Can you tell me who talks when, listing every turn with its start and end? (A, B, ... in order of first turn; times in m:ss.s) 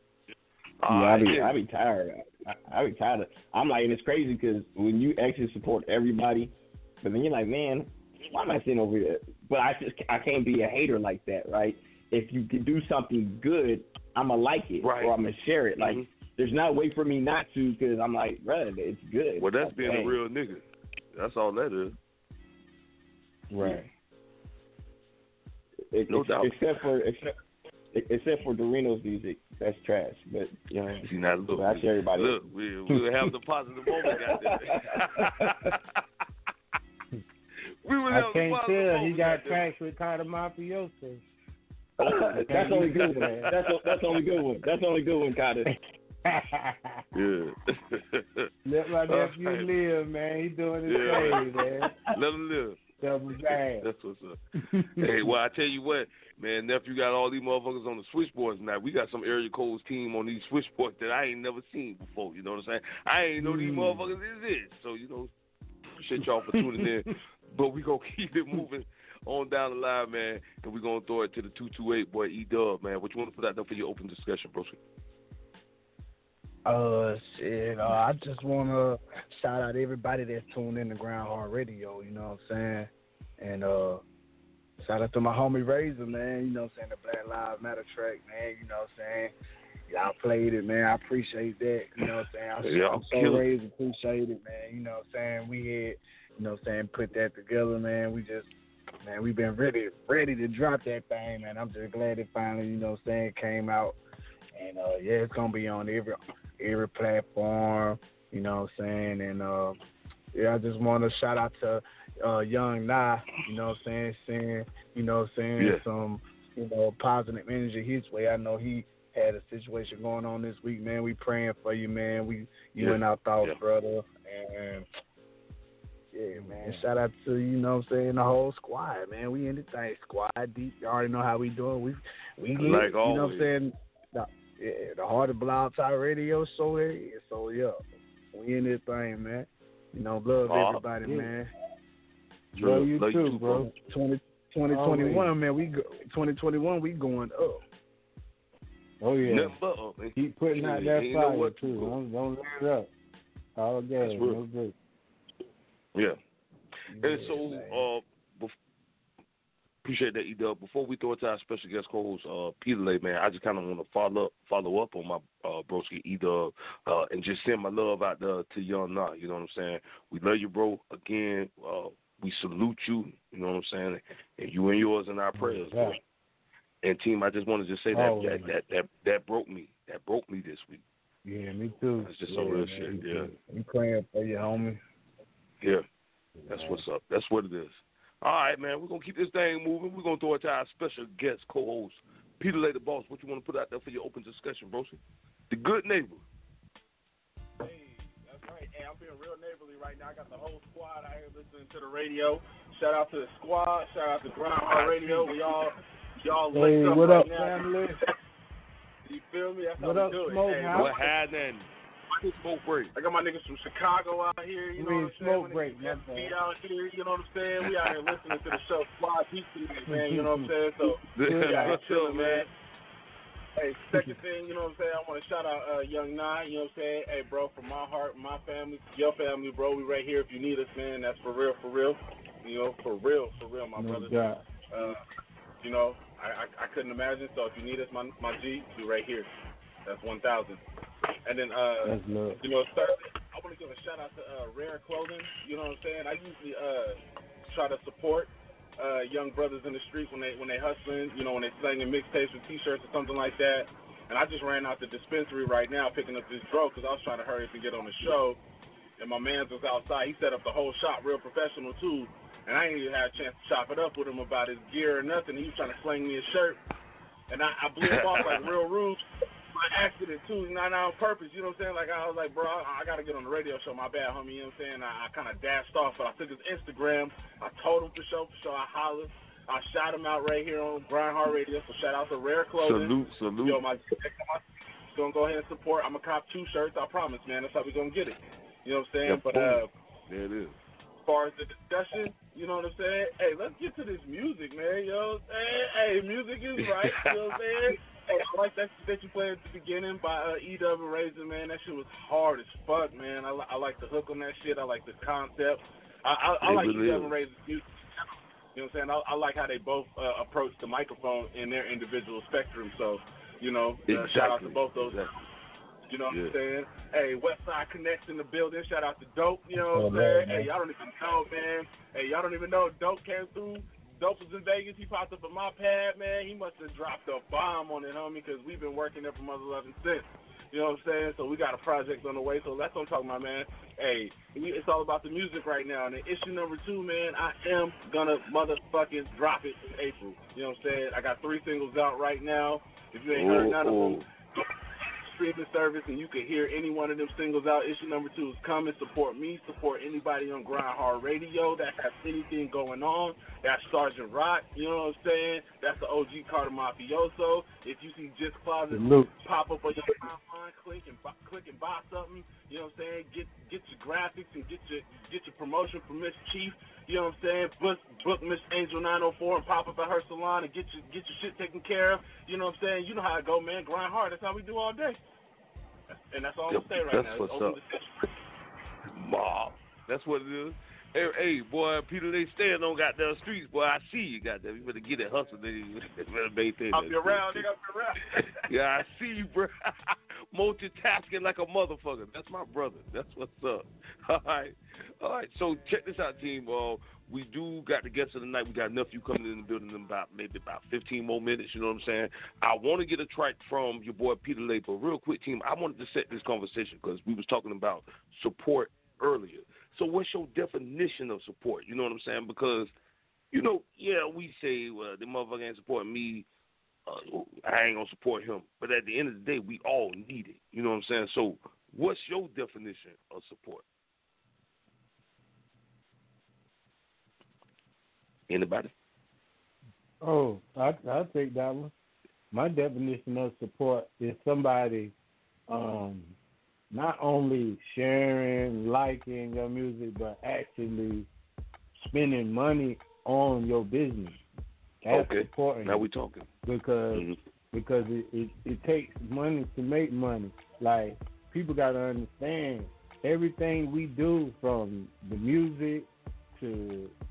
0:00.8-0:01.6 A
0:00.9-0:20.2 B
0:14.8-0:15.1 A
0:15.8-0:16.1 A
0:19.4-0:21.9 A
0:23.5-0:23.9 C
0:25.9-0:27.3 B
0:26.1-0:26.6 A
0:27.9-0:32.4 B
0:31.0-0:35.8 A
0:34.1-0:35.3 B
0:37.8-0:39.6 A
0:38.1-0:41.2 C
0:42.0-0:44.2 A
0:42.0-0:45.7 B
0:42.4-0:43.5 C
0:45.7-0:47.0 C
0:47.1-0:48.5 A
0:48.6-0:52.0 C
0:49.1-0:49.7 A
0:50.9-0:51.5 A
0:52.1-0:52.8 A
0:53.0-0:53.8 C
0:53.5-0:54.4 A
0:54.7-0:55.3 C
0:55.0-1:05.3 A
1:03.4-1:04.0 C
1:06.0-1:14.8 A
1:16.6-1:24.0 D
1:24.8-1:29.3 D
1:29.9-1:44.0 D
1:32.6-1:33.4 A
1:44.5-1:49.8 D
1:50.3-2:04.8 D
2:02.8-2:03.6 A
2:06.1-2:21.5 D
2:06.3-2:06.9 C
2:12.6-2:13.5 A
2:20.4-2:20.8 A
2:21.0-2:21.3 C
2:22.5-2:23.7 A
2:22.6-2:23.7 C
2:23.8-2:27.6 D
2:24.7-2:25.3 C
2:29.0-2:29.5 C
2:29.2-2:32.0 A
2:30.2-2:32.9 C
2:33.6-2:34.7 C
2:34.0-2:34.4 A
2:36.9-2:37.8 D
2:37.0-2:38.5 A
2:39.8-2:56.0 A
2:55.4-2:56.0 C
2:56.8-3:00.8 A
2:57.9-2:58.5 C
3:01.2-3:03.2 C
3:02.0-3:03.3 A
3:02.4-3:02.8 D
3:03.4-3:04.8 D
3:06.4-3:06.8 C
3:06.5-3:15.0 A
3:15.5-3:16.2 A
3:17.6-3:27.7 E
3:24.7-3:25.3 A
3:26.5-3:28.0 C
3:29.1-3:31.1 E
3:29.8-3:31.0 C
3:30.7-3:32.9 A
3:32.9-3:42.5 E
3:34.8-3:36.3 C
3:39.9-3:40.5 C
3:41.1-3:42.5 A
3:41.3-3:41.8 C
3:43.6-3:54.2 E
3:53.8-3:54.4 C
3:54.7-3:55.0 E
3:55.6-3:59.3 E
3:59.8-4:00.6 E
4:01.2-4:18.4 E
4:01.8-4:02.4 C
4:19.0-4:26.6 E
4:27.3-4:49.6 E
4:27.8-4:28.4 A
4:42.6-4:43.6 A
4:49.0-4:50.6 A
4:51.0-5:07.6 E
4:56.6-4:57.4 A
5:06.4-5:07.1 A
5:08.5-5:15.1 E
5:13.9-5:15.1 A
5:15.9-6:15.0 E
5:16.1-5:16.4 A
5:19.6-5:20.5 C
5:43.1-5:44.0 A
5:58.7-5:59.1 C
6:16.1-6:17.8 E
6:16.5-6:17.6 A
6:18.9-6:27.5 A
6:26.7-6:28.2 E
6:28.4-6:52.7 A
6:53.3-6:56.2 A
6:56.9-7:03.6 A
7:08.3-7:08.7 A
7:10.0-7:11.7 C
7:12.3-7:14.9 C
7:15.5-7:16.1 C
7:16.7-7:21.1 C
7:21.8-7:24.2 C
7:24.8-7:25.8 C
7:24.9-7:26.3 A
7:26.4-7:36.9 C